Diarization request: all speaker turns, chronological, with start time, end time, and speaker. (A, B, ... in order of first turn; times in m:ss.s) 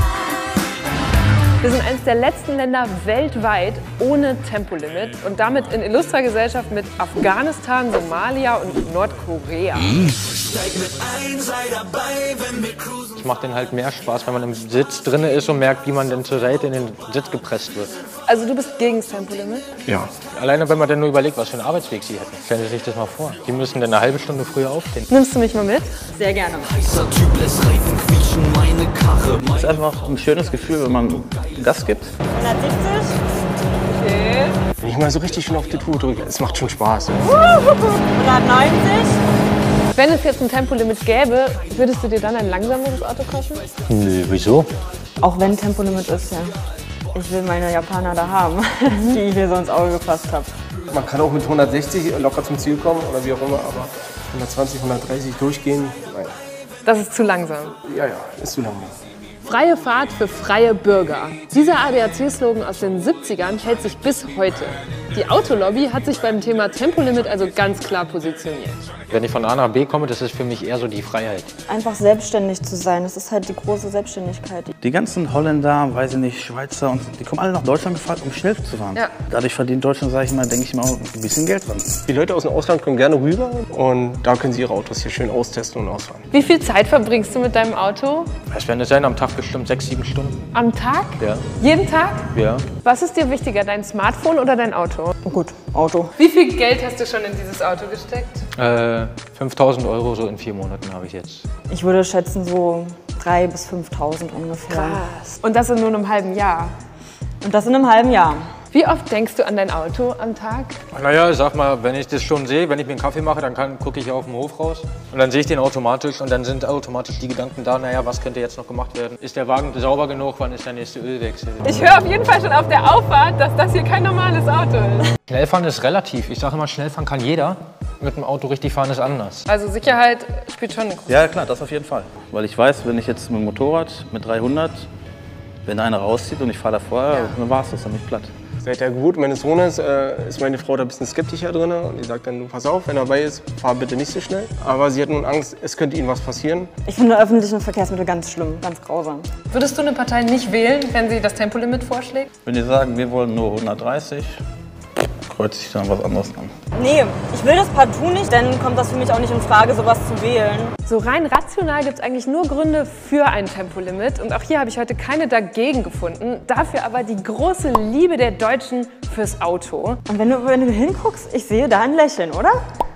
0:01.6-0:10.0 A
0:13.1-0:17.9 B
0:18.3-0:19.6 A
0:19.8-0:20.1 C
0:20.3-0:24.9 B
0:25.1-0:25.9 A
0:26.1-0:27.2 D
0:29.1-0:32.1 E
0:32.3-0:33.2 D
0:34.0-0:34.3 D
0:34.2-0:34.5 A
0:34.8-0:37.3 C
0:37.3-0:39.2 D
0:39.9-0:43.6 A
0:43.9-0:44.7 B
0:45.2-0:46.5 D
0:47.1-0:50.5 D
0:50.9-0:56.3 C
0:56.8-0:57.8 A
0:57.8-0:58.9 C
0:59.4-1:08.8 A
1:09.1-1:11.5 B
1:11.7-1:14.7 D
1:14.8-1:22.0 E
1:22.1-1:26.3 C
1:26.3-1:28.3 A
1:28.5-1:30.4 B
1:30.5-1:35.2 A
1:31.2-1:31.4 B
1:32.3-1:32.7 B
1:35.2-1:36.1 D
1:36.2-1:38.4 A
1:38.6-1:41.4 B
1:41.7-1:45.1 D
1:44.7-1:46.7 A
1:47.4-1:48.5 D
1:48.7-1:50.8 A
1:50.9-2:01.8 B
2:01.6-2:05.1 A
2:05.3-2:09.4 B
2:09.4-2:11.2 A
2:11.1-2:14.9 E
2:15.6-2:18.3 E
2:18.6-2:26.7 C
2:26.8-2:29.3 D
2:29.5-2:32.3 A
2:32.4-2:34.4 E
2:35.0-2:36.5 E
2:36.7-2:40.7 D
2:40.8-2:50.0 A
2:50.1-2:52.6 D